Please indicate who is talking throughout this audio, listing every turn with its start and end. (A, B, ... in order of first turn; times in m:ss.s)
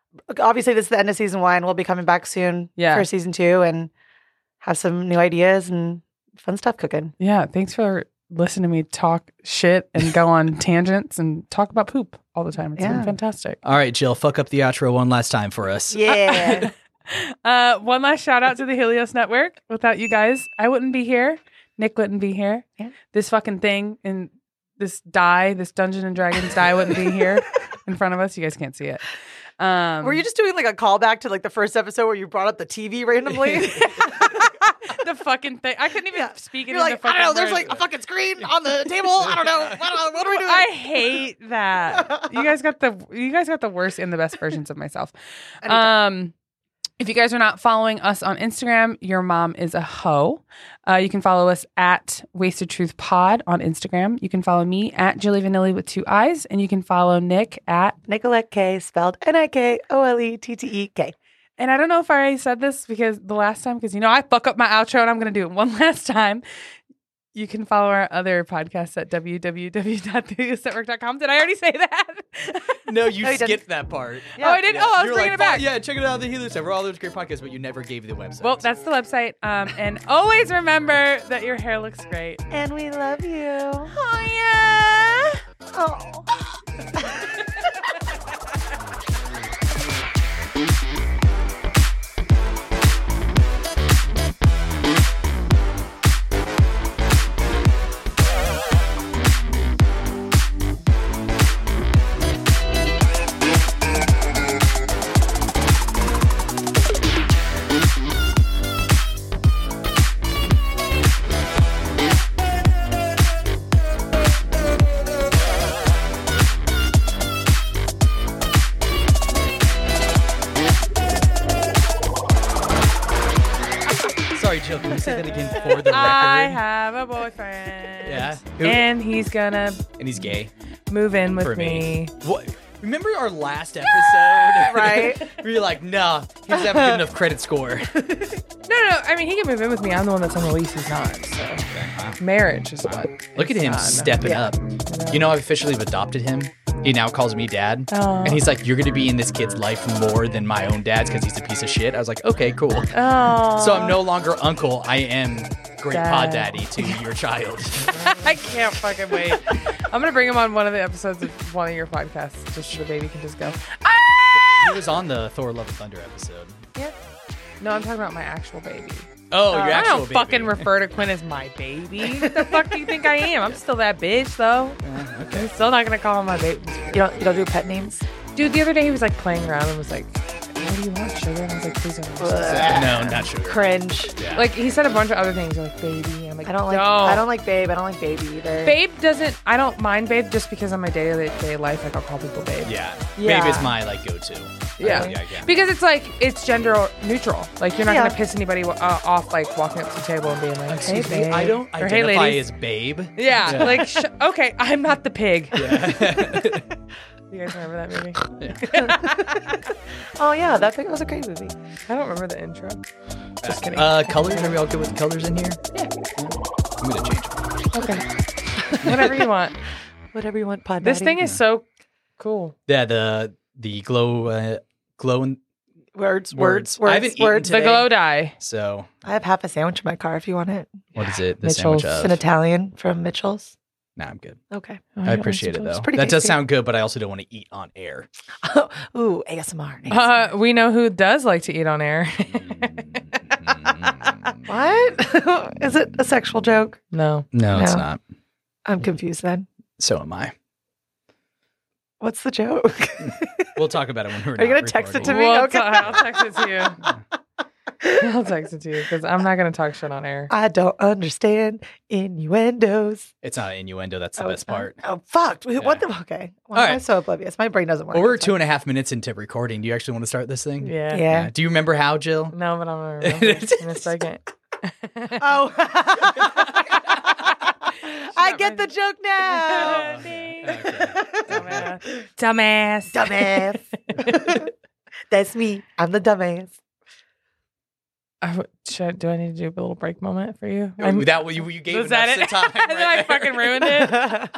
0:00.3-0:03.9 A
0:02.8-0:03.1 B
0:04.6-0:07.1 A
0:07.2-0:13.6 B
0:12.8-0:13.1 A
0:13.6-0:16.0 C
0:15.9-0:16.7 A
0:16.1-0:29.1 B
0:29.6-0:30.2 B
0:30.0-0:34.3 A
0:33.5-0:37.8 B
0:36.1-0:40.8 A
0:40.3-0:46.3 B
0:45.6-0:45.9 A
0:47.0-0:58.0 B
0:58.1-1:01.2 A
1:01.6-1:06.4 B
1:07.4-1:12.9 B
1:12.9-1:18.7 C
1:13.2-1:13.6 A
1:14.4-1:14.6 A
1:14.4-1:15.7 B
1:18.4-1:22.4 B
1:22.5-1:23.9 A
1:23.9-1:25.4 B
1:25.7-1:27.3 A
2:04.3-2:06.6 C
2:05.8-2:09.8 B
2:08.0-2:08.9 C
2:10.0-2:10.5 C
2:10.9-2:12.1 B
2:11.4-2:18.4 C
2:14.5-2:15.2 A
2:16.5-2:17.0 A
2:18.7-2:24.3 B
2:21.7-2:22.2 C
2:22.8-2:32.9 C
2:24.2-2:24.5 A
2:24.8-2:25.3 B
2:27.9-2:28.4 B
2:32.9-2:34.0 B
2:33.6-2:38.2 C
2:35.9-2:37.0 B
2:37.9-2:44.8 B
2:44.4-2:46.6 C
2:47.6-2:54.8 B
2:49.3-2:50.7 C
2:52.3-2:52.7 C
2:54.8-2:55.5 C
2:55.3-2:57.1 B
2:56.9-2:58.0 A
2:58.4-3:03.3 B
3:02.2-3:04.1 A
3:02.5-3:03.6 C
3:04.2-3:04.5 C
3:04.3-3:07.3 B
3:06.5-3:08.8 A
3:08.6-3:12.8 B
3:12.6-3:15.5 C
3:13.2-3:13.7 A
3:14.8-3:22.5 B
3:17.9-3:18.2 A
3:20.7-3:23.9 C
3:20.9-3:21.3 A
3:23.2-3:25.9 B
3:25.5-3:26.7 C
3:27.3-3:29.6 B
3:28.2-3:28.9 C
3:28.8-3:29.3 A
3:30.2-3:31.6 A
3:31.9-3:32.8 B
3:33.4-3:35.6 C
3:33.4-3:34.5 B
3:36.2-3:37.4 C
3:37.7-3:38.0 B
3:38.6-3:39.2 A
3:38.8-3:39.6 B
3:38.9-3:39.1 C
3:40.1-3:41.2 A
3:40.8-3:41.6 B
3:42.2-3:42.5 B
3:42.7-3:45.4 C
3:46.0-3:47.5 A
3:46.3-3:48.9 C
3:47.4-3:48.4 B
3:49.0-3:50.8 A
3:51.0-3:52.2 C
3:51.4-3:52.1 B
3:52.0-3:53.6 A
3:54.0-3:54.4 C
3:54.5-3:54.8 A
3:55.0-3:56.0 B
3:55.0-3:58.1 C
3:55.8-3:56.4 A
3:58.4-4:00.2 A
3:59.9-4:03.1 B
4:02.4-4:04.4 C
4:04.4-4:06.8 A
4:06.9-4:07.3 B
4:07.3-4:08.0 C
4:07.5-4:07.9 A
4:08.6-4:09.5 A
4:09.8-4:10.3 C
4:12.0-4:13.6 A
4:13.0-4:15.2 C
4:14.4-4:16.1 A
4:15.0-4:16.8 B
4:17.9-4:20.3 B
4:20.3-4:23.1 A
4:23.2-4:24.8 C
4:24.2-4:28.4 A
4:25.6-4:25.8 C
4:26.5-4:26.8 C
4:27.9-4:32.4 C
4:30.6-4:31.1 B
4:30.9-4:31.3 A
4:32.3-4:35.3 B
4:33.0-4:33.9 C
4:35.2-4:37.0 A
4:37.7-4:39.8 A
4:38.1-4:38.7 B
4:39.3-4:40.7 B
4:39.5-4:41.7 C
4:40.8-4:41.4 A
4:41.3-4:44.4 B
4:42.9-4:44.5 A
4:45.1-4:46.6 A
4:48.2-4:54.3 B
4:50.8-4:54.0 C
4:53.8-4:54.3 A